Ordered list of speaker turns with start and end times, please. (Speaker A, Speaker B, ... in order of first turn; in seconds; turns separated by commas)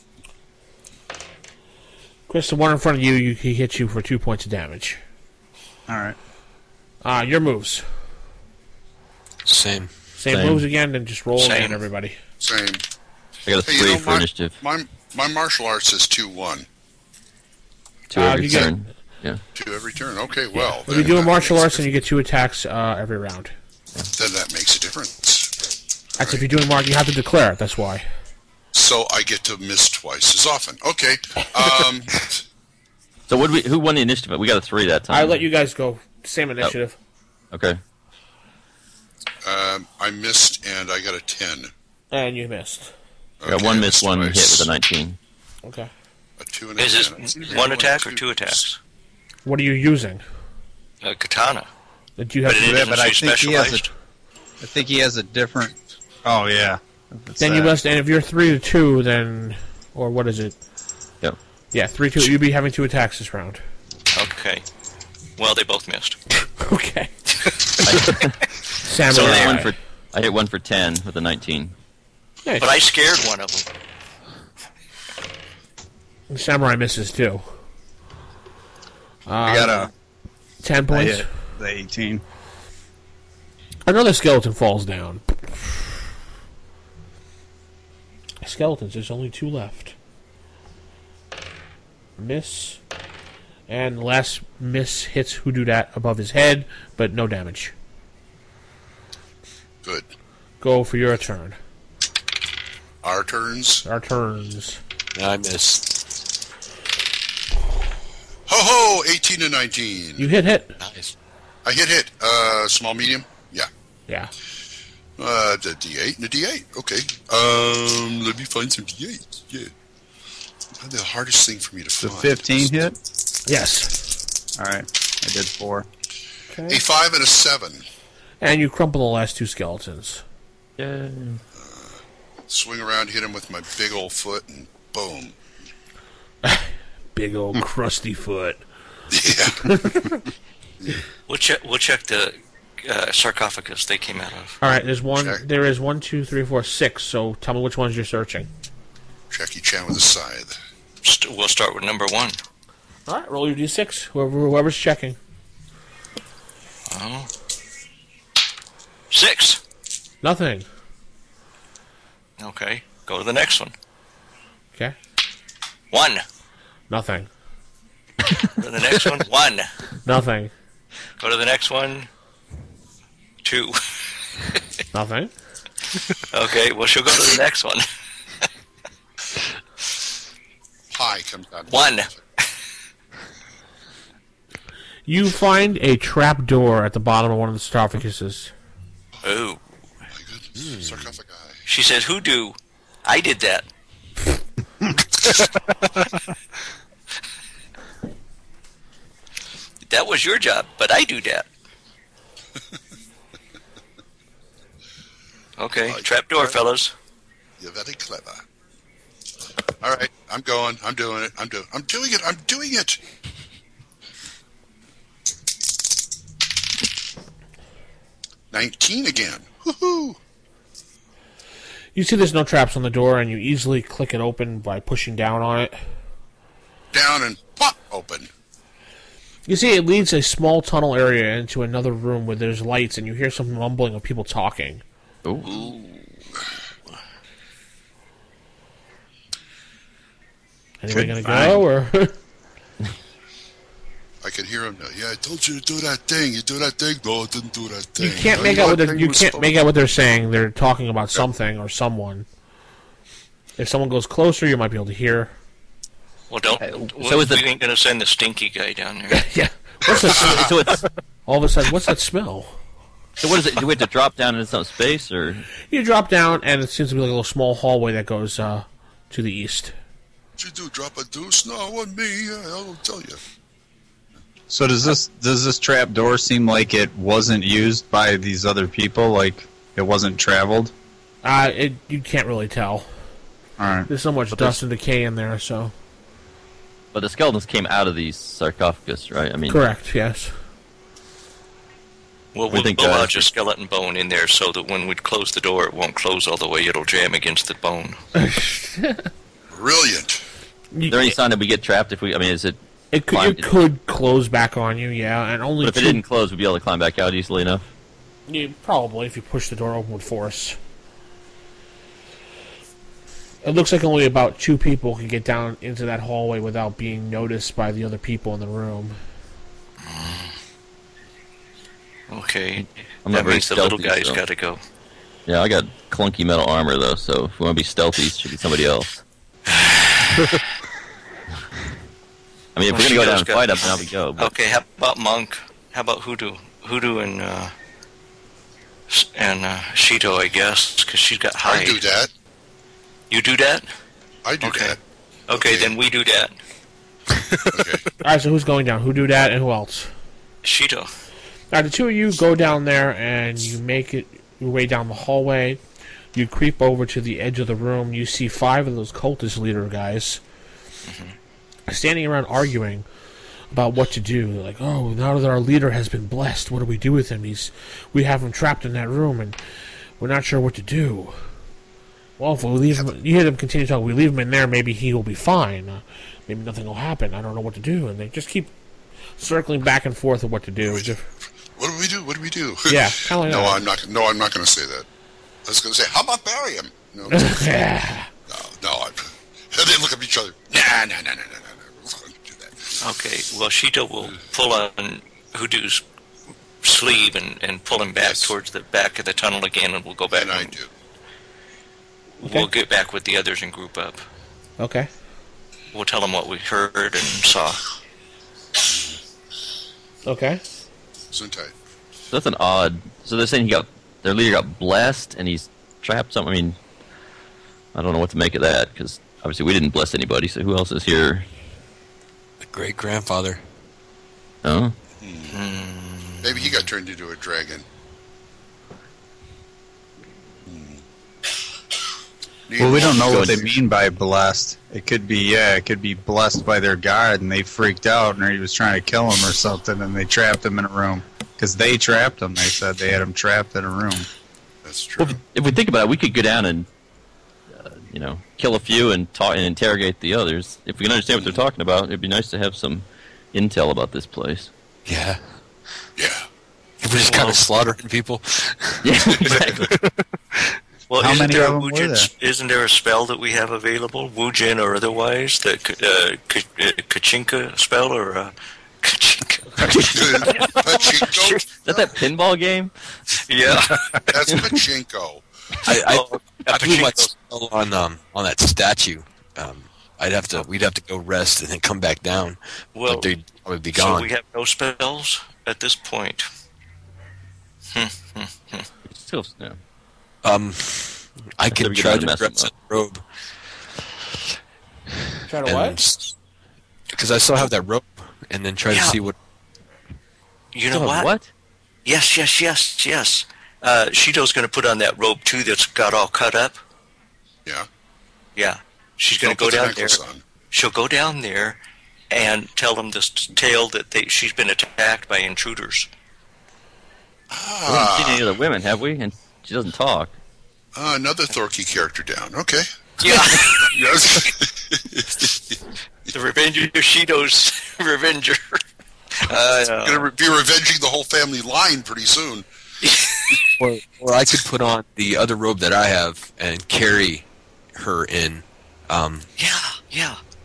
Speaker A: 2.3-5.0, Speaker B: 5.9-6.2, Speaker A: 7.0-7.8, Speaker C: 9.5-9.9, Speaker A: 10.2-12.2, Speaker D: 10.3-10.6, Speaker E: 11.4-11.8, Speaker F: 12.4-12.8, Speaker D: 13.5-14.6, Speaker F: 13.7-16.7, Speaker D: 18.1-19.4, Speaker A: 18.1-18.8, Speaker F: 19.6-21.8, Speaker A: 20.9-23.5, Speaker F: 24.1-25.5, Speaker A: 26.2-28.1, Speaker F: 28.7-32.4, Speaker D: 33.3-35.4, Speaker A: 35.1-37.0, Speaker D: 37.5-37.8, Speaker F: 39.4-41.7, Speaker A: 42.1-42.9, Speaker F: 43.4-44.7, Speaker D: 43.5-45.2, Speaker A: 45.6-45.9, Speaker F: 46.4-48.6, Speaker E: 46.8-48.8, Speaker A: 49.5-50.2, Speaker E: 51.0-51.7, Speaker A: 52.2-52.9, Speaker E: 52.5-53.9, Speaker B: 52.6-53.9, Speaker B: 54.6-57.8, Speaker A: 57.4-60.6, Speaker A: 61.7-63.6, Speaker E: 64.1-64.6, Speaker E: 65.4-66.2, Speaker A: 66.4-67.1, Speaker D: 67.8-68.4, Speaker A: 68.8-69.7, Speaker D: 69.1-71.7, Speaker A: 72.5-72.7, Speaker E: 72.6-73.7, Speaker A: 76.3-77.4, Speaker A: 79.3-79.9, Speaker B: 79.5-79.9, Speaker A: 80.6-81.3, Speaker B: 80.9-82.2, Speaker A: 83.8-86.0, Speaker A: 88.4-90.0, Speaker A: 92.2-92.8, Speaker A: 93.7-97.7, Speaker F: 99.8-100.1, Speaker A: 100.6-101.6, Speaker F: 103.0-103.8, Speaker A: 103.8-104.8, Speaker C: 105.2-105.9, Speaker F: 108.5-110.3, Speaker A: 110.2-110.8, Speaker C: 110.8-111.1, Speaker F: 111.7-113.7, Speaker F: 115.2-119.7, Speaker F: 120.8-122.8, Speaker B: 122.0-123.0, Speaker A: 123.5-124.0, Speaker B: 124.6-125.9, Speaker A: 126.5-126.8, Speaker F: 126.7-127.8, Speaker A: 128.4-130.2, Speaker D: 130.8-131.4, Speaker F: 131.6-135.3, Speaker A: 136.4-138.6, Speaker F: 139.1-140.1, Speaker A: 139.7-140.2, Speaker E: 141.3-144.6, Speaker A: 144.6-148.5, Speaker F: 145.2-145.4, Speaker F: 149.3-150.6, Speaker E: 151.0-152.4, Speaker A: 153.1-155.2, Speaker E: 156.9-157.3, Speaker E: 159.1-159.6, Speaker A: 160.2-160.7, Speaker E: 162.4-163.7, Speaker E: 165.9-166.2, Speaker A: 166.9-167.3, Speaker E: 168.5-169.7, Speaker A: 170.1-170.5, Speaker E: 171.2-172.1, Speaker E: 173.4-173.8, Speaker A: 174.9-175.3, Speaker E: 176.3-177.8, Speaker F: 180.9-182.1, Speaker E: 181.7-182.5, Speaker A: 185.1-188.5, Speaker E: 189.2-189.6, Speaker F: 190.1-191.6, Speaker C: 190.6-191.1, Speaker E: 191.7-193.7, Speaker E: 199.8-201.5, Speaker E: 205.6-206.9, Speaker F: 205.9-206.6, Speaker F: 207.6-208.4, Speaker F: 209.8-213.0, Speaker F: 218.5-220.2, Speaker A: 221.9-225.8, Speaker F: 226.9-228.3, Speaker A: 229.5-234.8, Speaker D: 235.2-235.5, Speaker E: 235.5-235.9, Speaker A: 240.8-242.2, Speaker B: 240.9-241.4, Speaker F: 244.2-249.5, Speaker A: 248.0-252.3, Speaker A: 253.6-255.3, Speaker E: 256.3-259.2, Speaker D: 256.8-257.4, Speaker A: 259.1-260.8, Speaker D: 260.1-260.9, Speaker A: 261.3-262.6, Speaker D: 263.2-265.4, Speaker A: 265.7-269.7, Speaker F: 270.4-273.2, Speaker B: 274.5-280.7, Speaker A: 281.2-282.9, Speaker B: 283.6-283.9, Speaker A: 283.9-285.7, Speaker D: 286.9-289.6, Speaker A: 289.5-290.3, Speaker E: 292.4-298.0, Speaker D: 292.5-293.3, Speaker A: 298.2-299.1, Speaker F: 299.5-300.2, Speaker A: 300.7-301.2, Speaker D: 300.9-302.6, Speaker A: 302.9-306.0, Speaker D: 303.1-303.5, Speaker D: 305.6-307.6, Speaker A: 308.3-310.6, Speaker A: 313.4-319.0, Speaker E: 319.8-320.3, Speaker E: 322.1-324.6, Speaker D: 323.1-324.2, Speaker D: 325.3-329.0, Speaker E: 329.6-330.3, Speaker D: 332.6-334.3, Speaker E: 332.7-337.5, Speaker E: 338.9-341.8, Speaker F: 341.4-342.1, Speaker E: 343.1-343.7, Speaker F: 344.2-344.8, Speaker E: 344.4-344.8, Speaker E: 345.3-346.4, Speaker F: 345.3-345.8, Speaker F: 347.5-347.9, Speaker A: 348.0-349.9, Speaker E: 350.4-350.9, Speaker A: 351.5-355.6, Speaker A: 356.1-360.2, Speaker E: 360.9-361.1, Speaker A: 361.7-362.9, Speaker A: 363.5-369.4, Speaker A: 370.0-371.2, Speaker A: 372.2-378.5, Speaker A: 379.2-381.1, Speaker F: 381.6-384.9, Speaker A: 382.7-383.6, Speaker F: 385.5-387.4, Speaker A: 387.1-388.1, Speaker F: 388.3-392.8, Speaker E: 392.8-395.8, Speaker E: 396.6-400.5, Speaker F: 398.0-398.3, Speaker F: 400.1-400.7, Speaker E: 402.2-404.0, Speaker A: 404.6-404.9, Speaker E: 405.7-407.6, Speaker F: 408.7-409.0, Speaker A: 410.1-410.4, Speaker F: 411.1-411.5, Speaker D: 412.1-416.6, Speaker D: 417.7-421.3, Speaker C: 422.4-423.4, Speaker D: 424.4-424.8, Speaker F: 425.0-425.4, Speaker E: 425.3-426.6, Speaker F: 426.2-427.7, Speaker F: 430.5-430.8, Speaker F: 432.5-433.5, Speaker B: 432.6-444.1, Speaker F: 444.6-445.2, Speaker D: 445.0-446.7, Speaker D: 447.6-454.5, Speaker F: 451.1-451.4, Speaker C: 454.9-455.2, Speaker C: 456.8-459.0, Speaker E: 457.0-457.4, Speaker D: 458.8-459.7, Speaker C: 459.7-460.6, Speaker E: 460.9-471.4, Speaker B: 461.0-462.1, Speaker D: 469.6-470.6, Speaker F: 469.7-471.5, Speaker D: 471.5-472.7, Speaker E: 473.3-474.0, Speaker F: 474.1-475.2, Speaker E: 475.7-477.1, Speaker C: 475.7-484.1, Speaker E: 482.8-483.1, Speaker E: 483.7-486.3, Speaker E: 487.7-488.7, Speaker D: 488.9-489.6, Speaker C: 490.2-493.0, Speaker D: 491.5-492.5, Speaker A: 495.3-495.8, Speaker C: 495.4-496.1, Speaker C: 496.9-499.2, Speaker E: 498.7-499.0, Speaker E: 500.5-501.1, Speaker D: 500.7-501.3, Speaker E: 501.9-506.6, Speaker E: 508.4-510.0, Speaker F: 509.2-510.2, Speaker E: 510.5-511.6, Speaker E: 512.1-515.9, Speaker F: 517.3-518.4, Speaker D: 517.7-520.1, Speaker F: 520.8-525.6, Speaker E: 523.0-524.3, Speaker E: 526.1-528.6, Speaker E: 529.2-530.1, Speaker F: 529.8-532.5, Speaker E: 532.8-533.4, Speaker C: 533.6-539.3, Speaker E: 539.4-540.2